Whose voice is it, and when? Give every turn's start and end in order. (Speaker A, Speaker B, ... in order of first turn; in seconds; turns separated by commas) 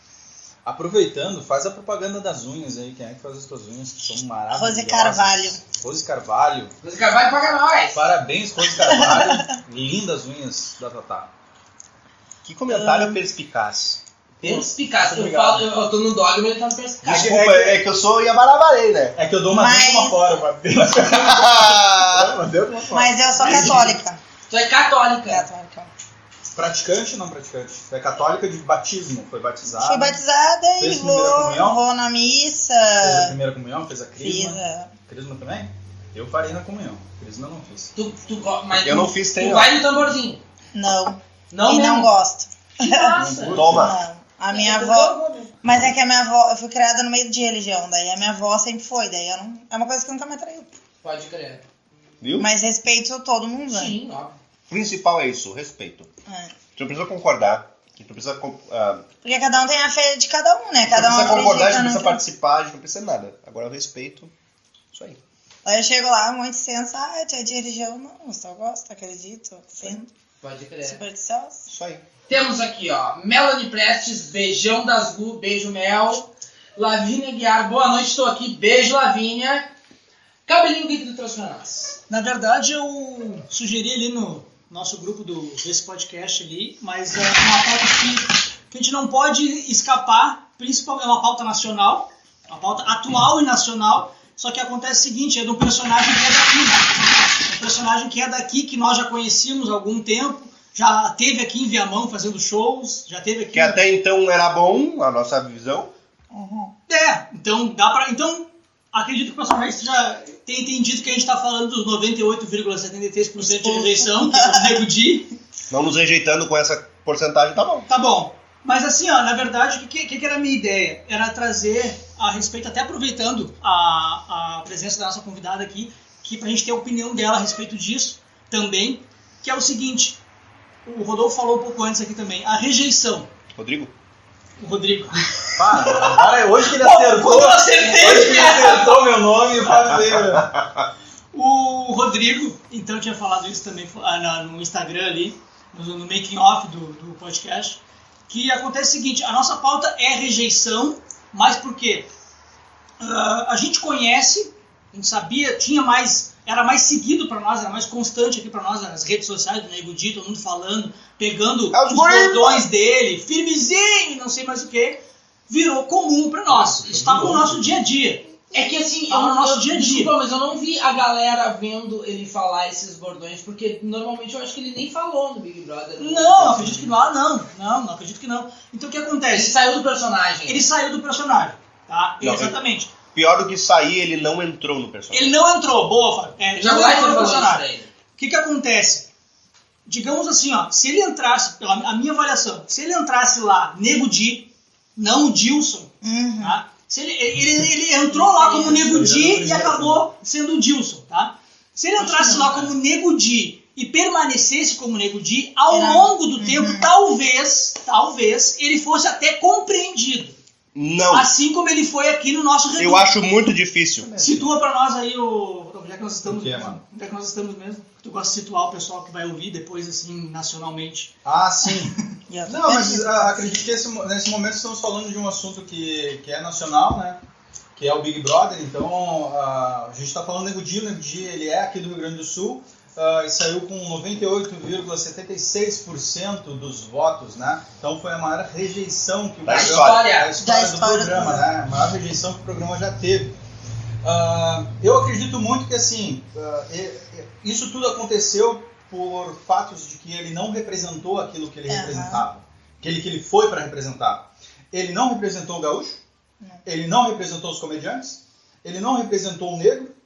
Speaker A: 0.6-6.7, Speaker B: 4.5-5.6, Speaker C: 6.8-8.0, Speaker A: 7.9-11.3, Speaker B: 8.7-9.6, Speaker D: 12.4-14.0, Speaker B: 12.7-13.2, Speaker A: 14.4-15.6, Speaker C: 14.4-17.3, Speaker D: 17.0-19.1, Speaker A: 17.0-17.8, Speaker A: 19.1-24.0, Speaker B: 19.5-20.2, Speaker D: 21.1-22.4, Speaker B: 22.9-24.2, Speaker C: 24.5-25.5, Speaker B: 25.3-25.9, Speaker A: 26.5-30.2, Speaker B: 29.7-33.3, Speaker A: 30.8-31.8, Speaker A: 33.0-37.9, Speaker B: 34.2-34.9, Speaker C: 37.9-40.4, Speaker D: 38.8-39.7, Speaker B: 40.7-50.7, Speaker C: 41.5-42.1, Speaker C: 42.8-43.7, Speaker A: 43.1-43.9, Speaker D: 43.5-44.0, Speaker C: 44.5-45.5, Speaker C: 51.0-51.6, Speaker D: 52.2-52.5, Speaker B: 52.4-53.9, Speaker C: 53.7-54.4, Speaker D: 54.7-56.1, Speaker B: 56.3-56.5, Speaker D: 56.7-59.0, Speaker B: 59.2-62.2, Speaker D: 60.9-64.3, Speaker D: 64.9-65.2, Speaker B: 65.6-70.1, Speaker C: 70.4-71.0, Speaker B: 70.8-71.7, Speaker D: 71.7-72.0, Speaker C: 72.3-79.7, Speaker C: 80.5-82.0, Speaker E: 82.1-96.9, Speaker E: 97.5-103.8, Speaker D: 103.5-105.9, Speaker B: 106.3-106.7, Speaker E: 106.9-115.3, Speaker B: 113.4-114.7, Speaker D: 115.7-117.9, Speaker E: 117.9-130.2, Speaker E: 130.8-133.3, Speaker D: 133.6-133.9, Speaker E: 134.6-139.1, Speaker A: 135.5-140.5, Speaker D: 140.1-140.8, Speaker E: 141.3-152.1, Speaker E: 153.0-168.2, Speaker D: 161.7-162.7, Speaker A: 166.5-167.7, Speaker C: 168.5-176.9, Speaker E: 169.1-170.1, Speaker E: 176.0-179.5, Speaker C: 179.3-180.7, Speaker E: 180.5-182.9, Speaker D: 182.2-182.6, Speaker D: 183.1-185.3, Speaker E: 185.1-187.7, Speaker C: 186.6-187.9, Speaker E: 188.2-189.1, Speaker E: 189.9-210.4, Speaker B: 196.0-196.6, Speaker B: 198.1-198.8, Speaker A: 198.7-200.1, Speaker B: 202.0-202.3, Speaker B: 205.7-206.9, Speaker D: 210.7-211.3, Speaker E: 211.1-213.1, Speaker D: 212.8-214.1, Speaker A: 214.0-214.5, Speaker E: 214.2-221.1, Speaker A: 216.2-216.8, Speaker A: 221.2-227.2, Speaker B: 222.3-223.3, Speaker A: 227.8-243.3, Speaker D: 239.4-239.9, Speaker C: 239.4-240.3, Speaker B: 240.4-241.5, Speaker A: 244.0-256.0, Speaker B: 251.7-252.2, Speaker A: 256.6-259.9